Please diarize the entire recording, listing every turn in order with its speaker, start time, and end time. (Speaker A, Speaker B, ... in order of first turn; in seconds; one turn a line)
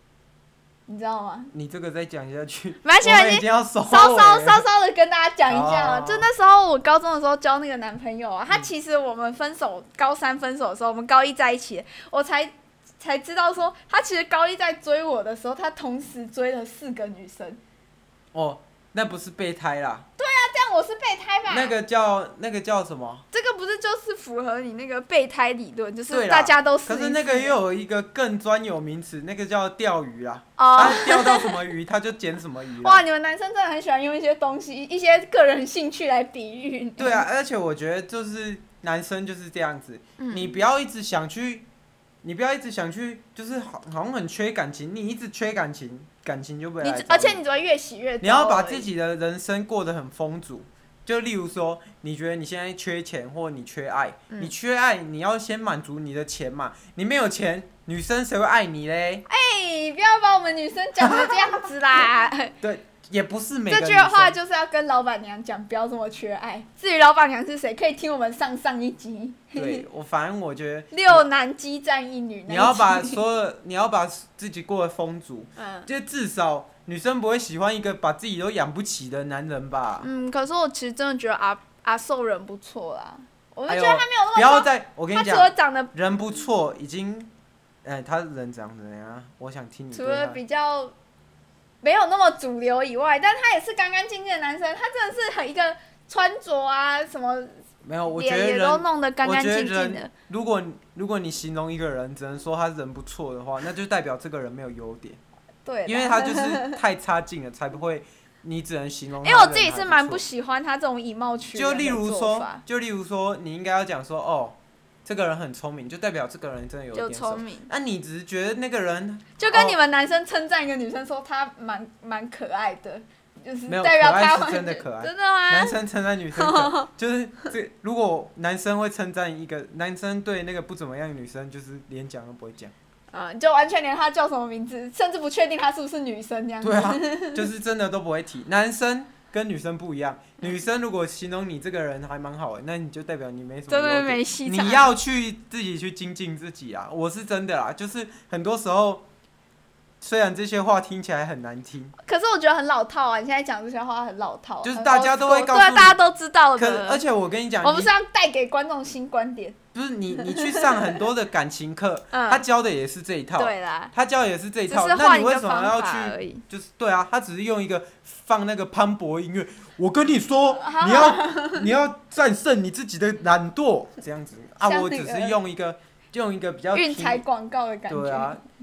Speaker A: 0.9-1.5
Speaker B: 1.5-4.6
Speaker A: 2.8-17.6
Speaker B: 5.5-6.3
Speaker B: 18.3-20.1
Speaker A: 20.2-21.8
Speaker B: 21.5-23.2
Speaker A: 23.3-27.5
Speaker B: 26.1-33.0
Speaker A: 30.6-31.6
Speaker A: 32.8-37.2
Speaker B: 37.0-41.6
Speaker A: 40.2-40.6
Speaker B: 42.2-47.4
Speaker A: 46.8-48.9
Speaker B: 48.2-59.2
Speaker A: 59.3-62.5
Speaker B: 61.0-61.4
Speaker B: 62.6-64.3
Speaker A: 63.7-69.8
Speaker B: 69.5-71.3
Speaker A: 70.9-73.2
Speaker B: 72.5-80.1
Speaker A: 75.6-75.9
Speaker A: 80.0-85.9
Speaker B: 83.7-87.3
Speaker B: 87.8-90.4
Speaker A: 89.9-90.9
Speaker A: 91.8-97.6
Speaker B: 97.8-105.2
Speaker A: 98.1-100.1
Speaker A: 105.6-106.8
Speaker B: 105.8-110.2
Speaker A: 109.2-112.6
Speaker B: 111.5-119.8
Speaker A: 116.9-117.7
Speaker A: 119.4-125.8
Speaker B: 123.7-132.7
Speaker A: 126.3-126.9
Speaker A: 133.1-137.5
Speaker B: 136.6-149.0
Speaker A: 143.7-144.9
Speaker B: 150.0-151.9
Speaker A: 152.0-157.0
Speaker B: 154.6-156.0
Speaker B: 156.6-157.9
Speaker A: 157.6-159.6
Speaker B: 159.7-177.2
Speaker A: 160.2-161.0
Speaker A: 162.1-162.4
Speaker A: 163.4-163.9
Speaker A: 164.7-166.4
Speaker A: 170.5-171.7
Speaker A: 174.6-175.4
Speaker A: 176.7-178.4
Speaker B: 177.9-178.4